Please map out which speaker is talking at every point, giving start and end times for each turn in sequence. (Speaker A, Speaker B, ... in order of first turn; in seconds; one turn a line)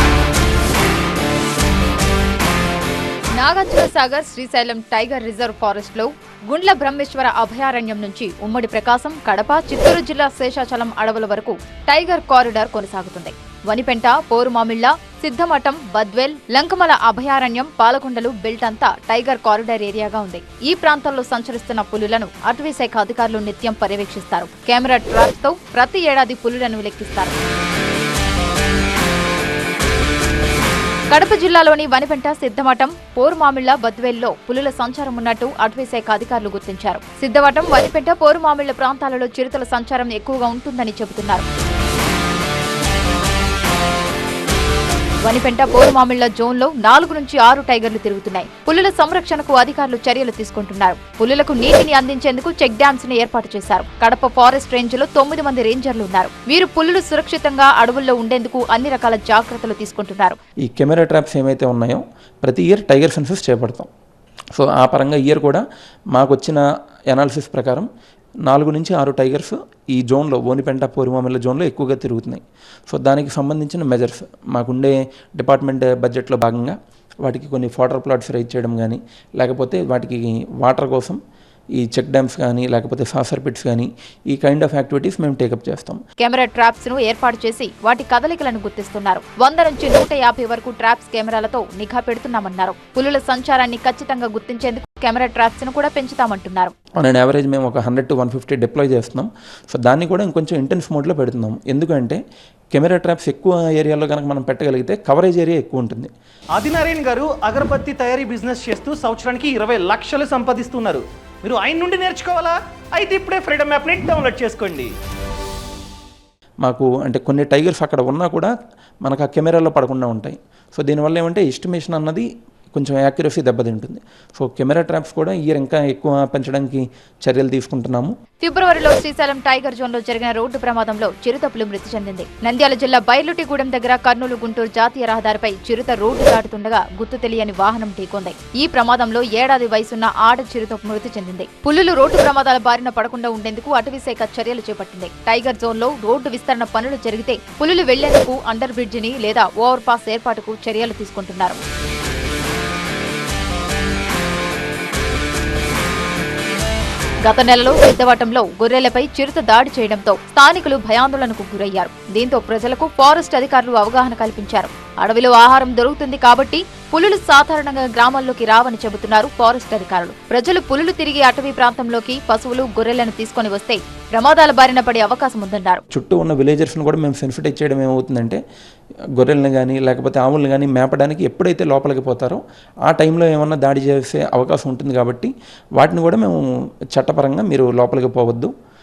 Speaker A: 3.4-27.3
Speaker A: 31.1-41.4
Speaker A: 45.2-60.4
Speaker B: 60.6-63.9
Speaker B: 64.5-65.6
Speaker B: 66.1-67.9
Speaker B: 68.5-81.2
Speaker B: 81.8-86.0
Speaker A: 86.2-96.7
Speaker B: 97.0-102.2
Speaker B: 102.7-106.1
Speaker C: 106.5-114.9
Speaker B: 116.6-118.5
Speaker B: 119.0-128.1
Speaker A: 128.4-151.6
Speaker A: 157.2-175.8
Speaker B: 175.9-178.4
Speaker B: 179.2-186.4
Speaker B: 186.9-188.5